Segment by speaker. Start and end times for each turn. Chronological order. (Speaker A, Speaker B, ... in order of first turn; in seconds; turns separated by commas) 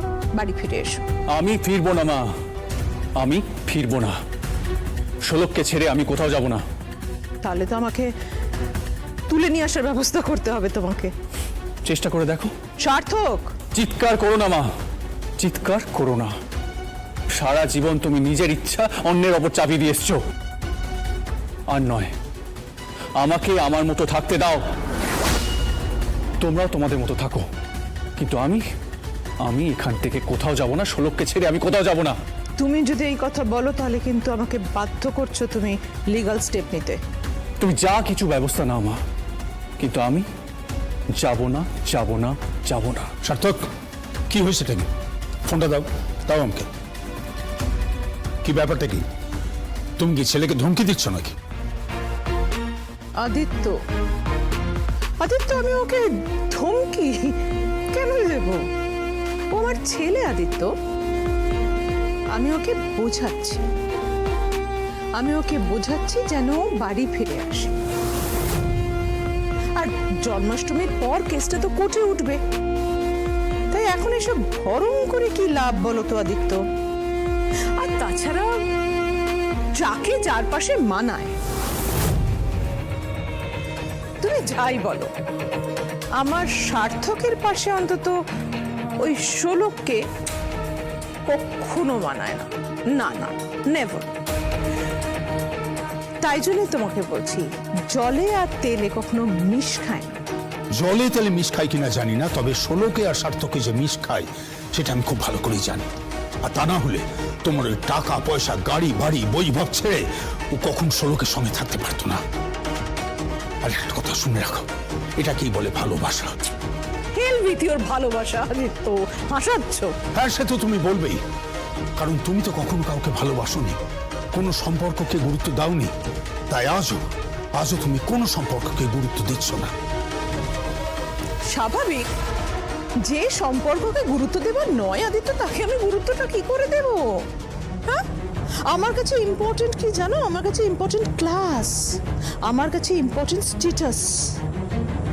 Speaker A: 0.3-1.0, Speaker B: 1.3-2.3, Speaker B: 3.2-4.2, Speaker B: 5.2-6.6, Speaker A: 7.4-8.1, Speaker A: 9.3-11.1, Speaker B: 11.8-12.5, Speaker A: 12.8-13.5, Speaker B: 13.7-14.7, Speaker B: 15.4-16.4, Speaker B: 17.3-20.2, Speaker B: 21.7-22.1, Speaker B: 23.2-24.6, Speaker B: 26.4-27.5, Speaker B: 28.2-28.6, Speaker B: 29.4-32.2, Speaker A: 32.6-37.0, Speaker B: 37.6-39.0, Speaker B: 39.8-40.2, Speaker B: 41.1-43.1, Speaker C: 43.2-43.7, Speaker C: 44.3-44.9, Speaker C: 45.4-46.7, Speaker C: 48.4-49.0, Speaker C: 50.0-51.4, Speaker A: 53.2-53.8, Speaker A: 55.2-57.4, Speaker A: 57.9-58.6, Speaker A: 59.5-60.7, Speaker A: 62.3-63.7, Speaker A: 65.2-67.7, Speaker A: 69.8-72.4, Speaker A: 73.7-76.6, Speaker A: 77.8-78.5, Speaker A: 79.8-81.3, Speaker A: 84.2-85.1, Speaker A: 86.2-88.2, Speaker A: 89.0-90.0, Speaker A: 91.3-94.1, Speaker A: 96.2-100.2, Speaker C: 100.7-105.9, Speaker C: 106.4-110.0, Speaker C: 110.5-112.2, Speaker C: 113.6-116.3, Speaker A: 117.1-120.0, Speaker C: 120.1-121.2, Speaker C: 122.0-123.8, Speaker C: 124.3-125.9, Speaker C: 126.5-127.0, Speaker C: 127.5-129.7, Speaker A: 131.5-132.1, Speaker A: 133.0-137.2, Speaker A: 138.7-141.9, Speaker A: 142.4-144.3